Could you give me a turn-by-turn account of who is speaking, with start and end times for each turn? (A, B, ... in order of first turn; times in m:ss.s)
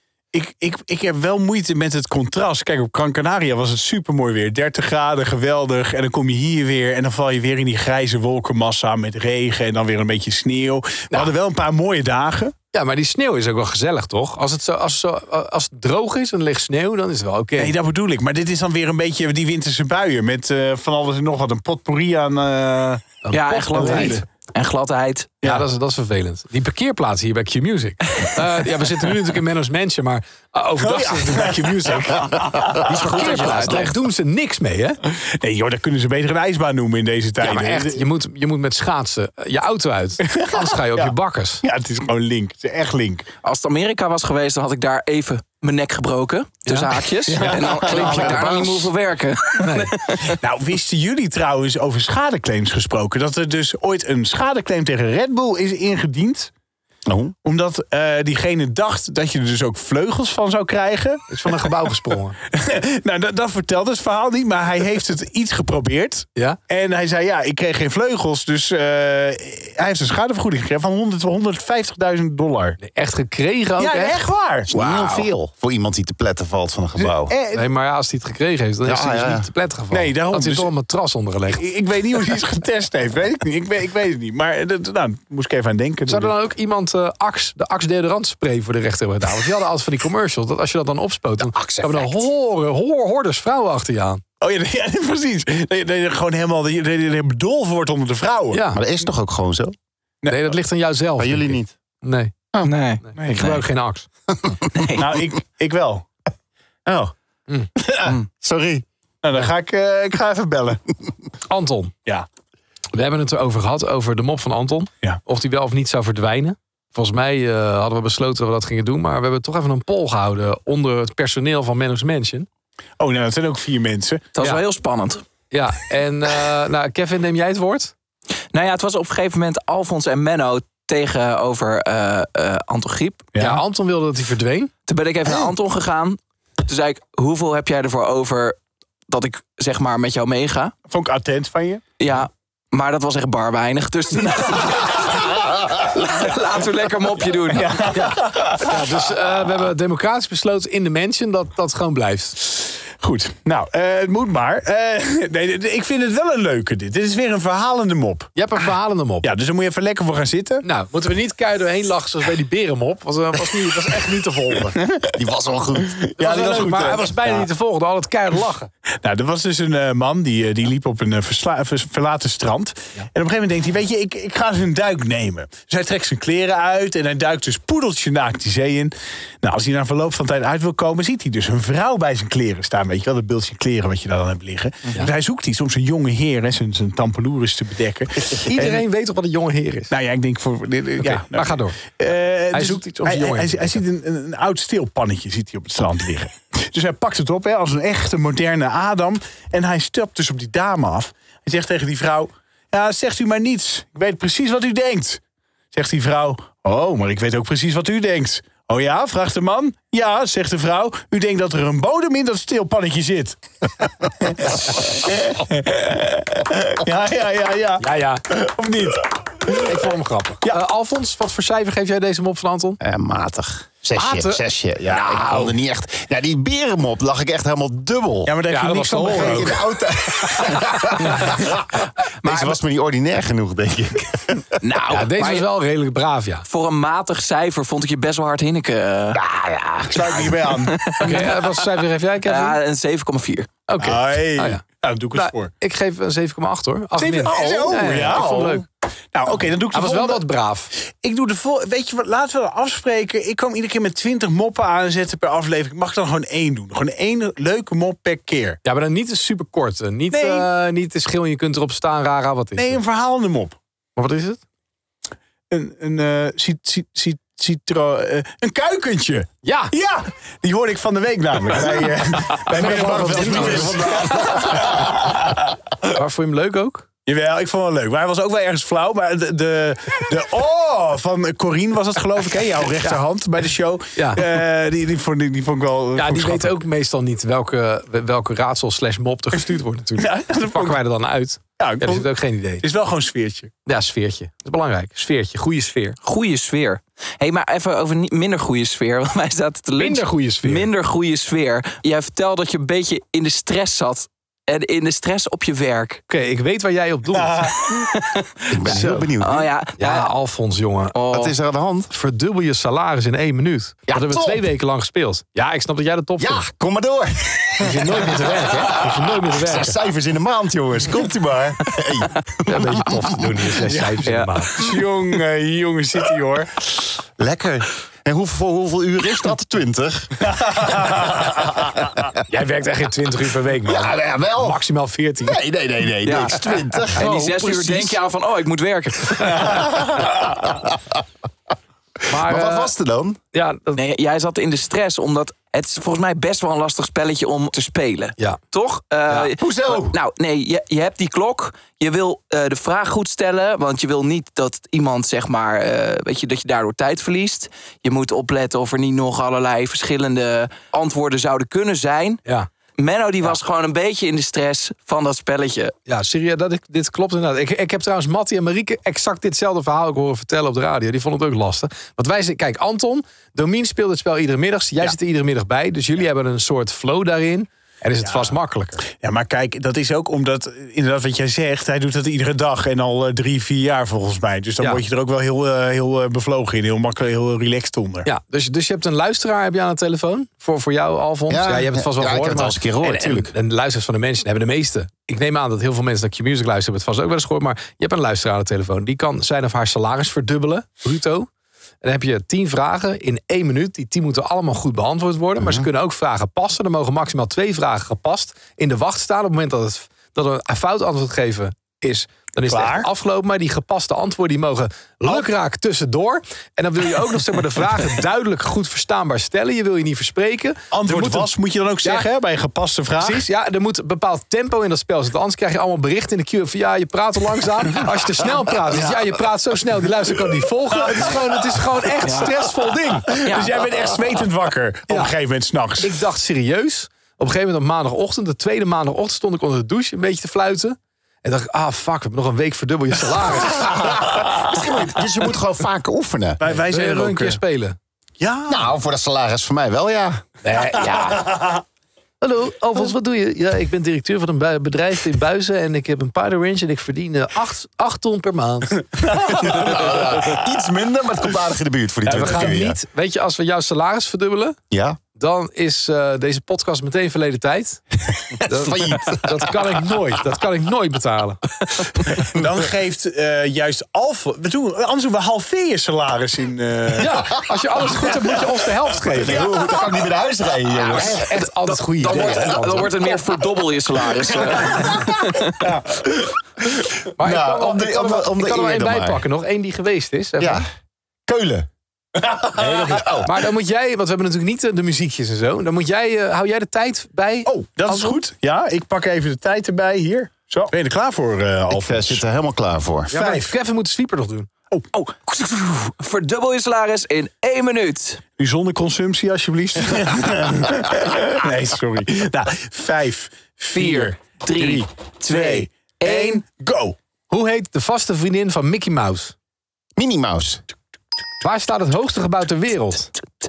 0:00.3-0:12.5 A
0:12.7-0:17.7 B
0:17.6-0:23.1 A
0:23.2-0:24.2 B
0:23.3-0:25.4 C
0:23.8-0:24.2 A
0:25.4-0:25.7 A
0:25.4-0:32.2 B
0:30.8-0:33.7 A
0:32.8-0:35.0 B
0:32.9-0:33.9 C
0:35.1-0:38.0 A
0:37.4-0:41.6 B
0:40.2-0:43.2 A
0:43.4-0:50.4 C
0:46.6-0:46.9 B
0:47.3-0:48.6 A
0:47.6-0:48.9 D
0:49.6-0:49.9 B
0:50.2-0:56.5 A
0:57.1-0:57.3 D
0:57.4-1:01.7 A
1:01.3-1:02.4 B
1:02.5-1:12.8 A
1:12.8-1:14.2 B
1:13.8-1:14.7 A
1:14.7-1:17.3 D
1:14.8-1:15.2 C
1:17.0-1:17.6 A
1:17.5-1:21.6 B
1:18.8-1:19.5 D
1:19.9-1:20.7 A
1:21.6-1:26.3 A
1:26.1-1:34.2 B
1:31.4-1:32.2 D
1:34.4-1:38.6 A
1:38.5-1:38.8 B
1:38.7-1:39.8 D
1:40.2-1:40.5 A
1:40.3-1:42.3 B
1:41.2-1:41.7 D
1:42.6-1:43.0 C
1:43.0-1:44.1 B
1:43.2-1:43.6 A
1:44.7-1:45.0 C
1:44.9-1:46.1 A
1:47.9-1:48.8 D
1:49.2-1:50.8 A
1:51.5-1:51.9 B
1:52.9-2:02.5 B
2:03.0-2:04.2 A
2:04.3-2:05.2 C
2:05.5-2:07.9 B
2:08.5-2:13.3 C
2:13.3-2:13.6 A
2:13.4-2:14.7 B
2:14.9-2:18.6 C
2:19.1-2:20.7 C
2:20.9-2:21.8 A
2:22.0-2:27.9 C
2:27.5-2:28.8 A
2:27.9-2:32.4 B
2:33.0-2:38.3 A
2:38.3-2:39.3 B
2:39.2-2:40.6 A
2:40.6-2:44.7 B
2:45.1-2:46.1 D
2:45.9-2:47.3 A
2:46.2-2:48.7 B
2:49.0-3:08.8 A
3:08.4-3:09.9 B
3:09.9-3:25.2 A
3:11.0-3:11.8 B
3:12.5-3:13.8 B
3:25.7-3:39.7 A
3:37.8-3:38.2 B
3:39.6-3:42.8 B
3:42.8-3:48.3 D
3:44.0-3:45.5 B
3:48.2-3:49.6 A
3:48.5-3:49.6 B
3:49.1-3:54.5 D
3:52.2-3:52.6 C
3:54.6-3:55.4 C
3:54.9-3:56.5 B
3:56.5-3:59.2 C
3:59.1-4:00.4 D
3:59.9-4:01.3 A
4:00.6-4:01.5 C
4:01.0-4:02.6 B
4:02.2-4:03.5 C
4:03.7-4:04.6 B
4:03.8-4:05.5 A
4:05.1-4:08.6 B
4:07.0-4:10.2 A
4:09.7-4:10.7 B
4:10.8-4:18.6 A
4:18.6-4:22.8 B
4:20.1-4:20.4 A
4:22.6-4:23.6 A
4:24.0-4:24.4 B
4:25.5-4:35.6 A
4:29.4-4:29.7 B
4:32.3-4:34.7 B
4:32.5-4:34.8 D
4:35.9-4:36.8 B
4:37.0-4:46.6 A
4:44.0-4:44.2 B
4:46.0-4:52.6 B
4:50.0-4:50.8 A
4:51.6-4:52.1 A
4:52.6-4:53.5 A
4:53.6-4:56.0 B
4:56.0-5:06.0 C
4:59.8-5:00.7 B
5:06.1-5:07.5 B
5:07.2-5:07.7 A
5:07.7-5:10.1 C
5:08.5-5:09.5 D
5:08.6-5:09.1 B
5:09.8-5:11.0 B
5:10.9-5:11.3 C
5:11.1-5:11.9 D
5:11.9-5:16.5 B
5:13.9-5:14.4 D
5:16.2-5:23.4 D
5:17.6-5:19.8 B
5:22.4-5:24.6 B
5:23.7-5:26.7 A
5:24.0-5:24.3 C
5:27.2-5:30.2 D
5:30.3-5:31.4 A
5:30.9-5:31.9 D
5:32.3-5:35.4 B
5:33.6-5:34.6 D
5:35.2-5:38.0 D
5:36.0-5:39.7 C
5:36.9-5:37.5 B
5:40.2-5:40.8 D
5:42.1-5:42.7 B
5:42.1-5:43.2 D
5:43.3-5:43.8 B
5:43.8-6:02.2 C
5:49.2-5:50.0 D
6:02.8-6:05.7 C
6:05.9-6:18.8 B
6:18.0-6:18.3 A
6:18.9-6:28.1 A
6:28.0-6:41.3 B
6:31.3-6:33.3 D
6:41.8-7:01.3 B
6:45.4-6:45.7 D
6:52.5-6:52.9 A
7:00.7-7:03.2 A
7:03.0-7:13.2 B
7:10.8-7:11.3 A
7:12.0-7:12.4 C
7:13.1-7:15.9 A
7:13.2-7:13.6 C
7:14.9-7:15.1 B
7:15.8-7:24.0 B
7:23.5-7:26.4 D
7:26.4-7:27.4 A
7:26.5-7:27.8 B
7:28.2-7:28.7 A
7:28.5-7:30.2 D
7:30.4-7:31.4 B
7:31.2-7:31.6 A
7:32.2-7:38.9 B
7:39.0-7:40.1 A
7:39.3-7:42.8 D
7:42.0-7:44.6 B
7:44.7-7:45.0 D
7:45.1-7:47.8 B
7:48.4-7:49.8 D
7:48.4-7:51.6 B
7:52.2-7:57.2 A
7:57.0-7:59.4 B
7:59.1-8:01.3 D
8:00.9-8:03.2 B
8:01.3-8:05.6 C
8:02.1-8:02.4 D
8:05.6-8:06.3 A
8:07.2-8:10.6 B
8:07.2-8:09.2 D
8:10.4-8:10.6 D
8:11.3-8:11.7 D
8:12.2-8:13.1 A
8:12.6-8:13.3 D
8:12.6-8:18.2 B
8:17.4-8:22.2 A
8:21.7-8:23.1 D
8:23.1-8:23.5 A
8:23.1-8:24.5 B
8:24.9-8:28.2 C
8:28.4-8:37.0 A
8:33.7-8:36.4 C
8:37.3-8:39.3 B
8:40.0-8:40.6 D
8:41.4-8:43.1 B